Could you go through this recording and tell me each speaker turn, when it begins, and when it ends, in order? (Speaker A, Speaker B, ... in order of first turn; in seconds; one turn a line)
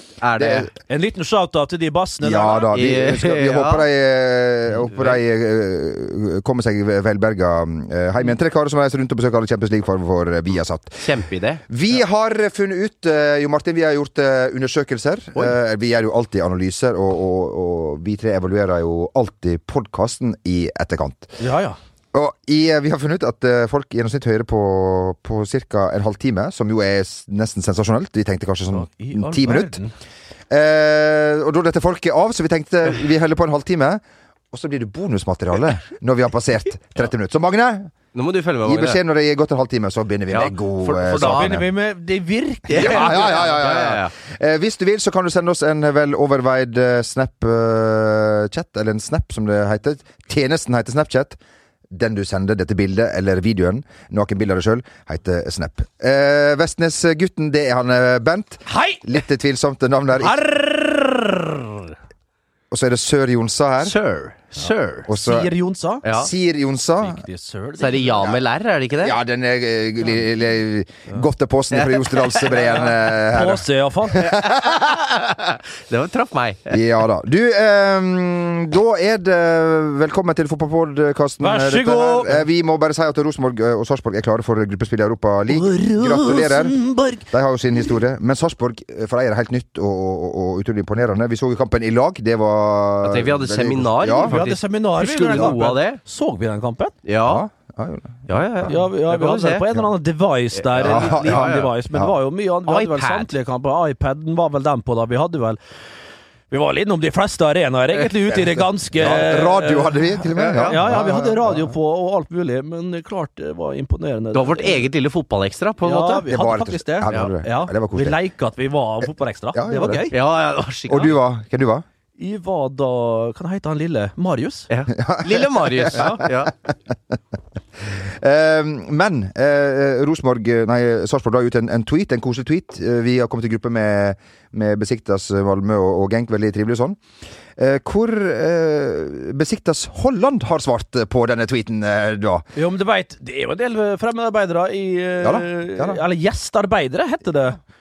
Speaker A: 0.2-0.7
Speaker B: 0.4-0.7
Speaker C: 0.9-2.7
Speaker B: 2.2-11.1
Speaker A: 2.7-3.9
Speaker A: 4.9-5.2
Speaker A: 11.0-11.6
Speaker B: 11.7-21.4
Speaker C: 21.4-21.8
Speaker B: 22.1-29.8
Speaker C: 28.7-29.9
Speaker B: 30.5-37.9
Speaker A: 38.1-39.0
Speaker B: 38.6-41.7
Speaker A: 40.3-41.6
Speaker C: 41.1-43.5
Speaker A: 42.7-44.1
Speaker B: 42.7-51.4
Speaker B: 51.9-60.4
Speaker C: 58.7-59.1
Speaker C: 60.1-61.9
Speaker B: 62.7-64.0
Speaker A: 63.8-65.1
Speaker B: 65.1-65.5
Speaker C: 65.2-66.0
Speaker A: 66.0-66.3
Speaker B: 66.0-67.2
Speaker C: 67.0-68.2
Speaker A: 67.8-69.2
Speaker B: 69.0-74.8
Speaker A: 71.8-72.8
Speaker C: 73.3-74.3
Speaker A: 74.6-76.8
Speaker B: 76.7-86.8
Speaker C: 81.4-82.4
Speaker C: 85.5-87.3
Speaker B: 87.3-94.4
Speaker A: 93.0-96.0
Speaker C: 94.3-97.0
Speaker A: 97.1-97.5
Speaker B: 97.2-98.7
Speaker A: 98.3-99.7
Speaker C: 98.7-105.6
Speaker A: 100.7-101.7
Speaker B: 100.8-102.1
Speaker A: 102.7-103.3
Speaker C: 106.5-114.9
Speaker B: 108.9-111.7
Speaker A: 110.4-110.8
Speaker A: 114.3-116.2
Speaker C: 115.8-120.2
Speaker B: 116.2-118.2
Speaker B: 119.5-120.1
Speaker A: 120.1-121.2
Speaker B: 120.9-121.8
Speaker C: 122.2-124.7
Speaker A: 124.7-126.5
Speaker B: 125.0-126.1
Speaker C: 125.9-126.2
Speaker B: 127.9-137.0
Speaker B: 137.6-142.4
Speaker C: 142.6-147.6
Speaker B: 145.2-146.0